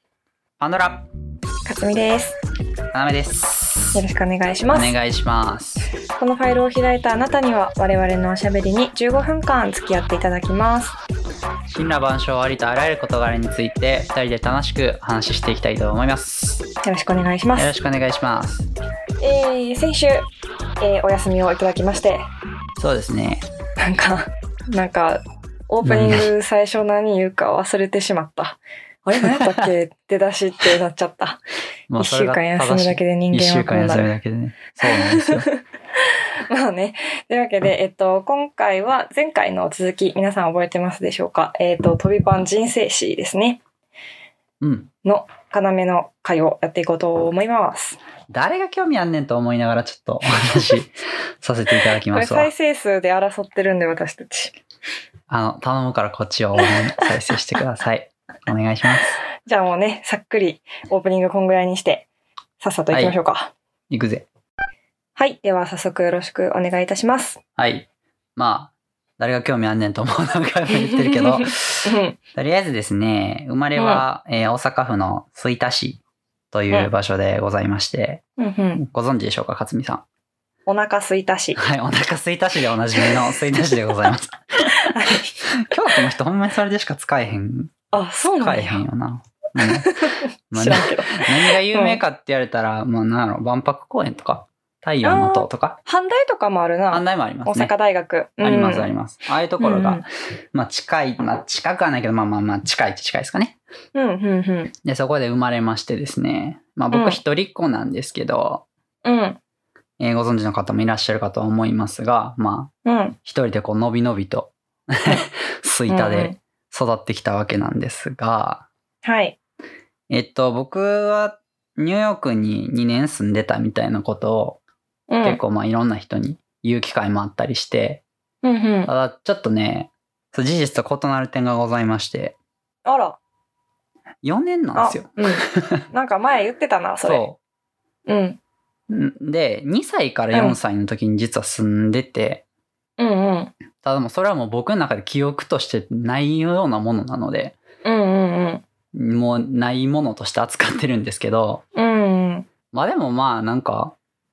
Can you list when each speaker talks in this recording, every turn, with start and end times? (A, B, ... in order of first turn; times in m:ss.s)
0:00.6-0:01.0 A
0:01.6-0:02.4 B
0:02.9-0:04.0 A
0:03.9-0:05.0 B
0:04.7-0:05.9 A
0:06.1-0:10.9 B
0:11.7-0:16.6 A
0:16.8-0:17.7 B
0:17.5-0:18.7 A
0:19.2-0:20.2 B
0:20.8-0:22.2 B
0:22.8-0:23.4 A
0:23.8-0:31.4 B
0:25.8-0:26.3 A
0:29.3-0:29.6 A
0:31.9-0:35.5 A
0:32.0-0:34.1 B
0:34.8-0:35.6 B
0:36.5-0:43.6 B
0:44.6-0:44.9 A
0:45.0-0:48.0 B
0:48.3-0:52.5 A
0:52.1-0:54.6 B
0:55.3-0:59.1 A
0:56.6-0:57.1 B
0:59.4-1:02.1 B
1:02.6-1:03.5 B
1:02.9-1:03.2 A
1:03.9-1:04.3 A
1:05.2-1:07.4 B
1:07.6-1:18.2 A
1:10.7-1:12.2 B
1:13.8-1:14.0 B
1:18.4-1:18.8 B
1:18.8-1:20.0 A
1:20.6-1:21.6 B
1:21.6-1:24.7 A
1:24.8-1:25.4 B
1:25.4-1:27.7 A
1:27.9-1:28.8 B
1:28.4-1:29.9 A
1:29.7-1:32.0 B
1:30.5-1:35.8 A
1:35.0-1:38.9 B
1:36.9-1:37.7 A
1:38.4-1:43.6 A
1:39.6-1:40.0 B
1:43.9-1:44.7 B
1:44.8-1:48.6 A
1:46.9-1:47.2 B
1:49.0-1:49.4 B
1:50.0-1:52.7 A
1:52.8-1:53.2 B
1:53.2-1:58.7 A
1:55.9-1:56.4 B
1:59.0-1:59.4 B
2:00.1-2:04.6 A
2:05.1-2:05.4 B
2:05.2-2:08.0 A
2:08.4-2:08.9 B
2:08.9-2:12.4 A
2:12.8-2:13.2 B
2:14.2-2:15.8 A
2:14.8-2:17.2 B
2:17.0-2:17.4 A
2:18.0-2:18.4 B
2:18.9-2:22.4 A
2:20.3-2:20.6 B
2:23.0-2:23.5 B
2:23.8-2:27.6 A
2:27.8-2:28.6 B
2:28.9-2:31.6 A
2:31.8-2:32.5 B
2:32.7-2:33.9 A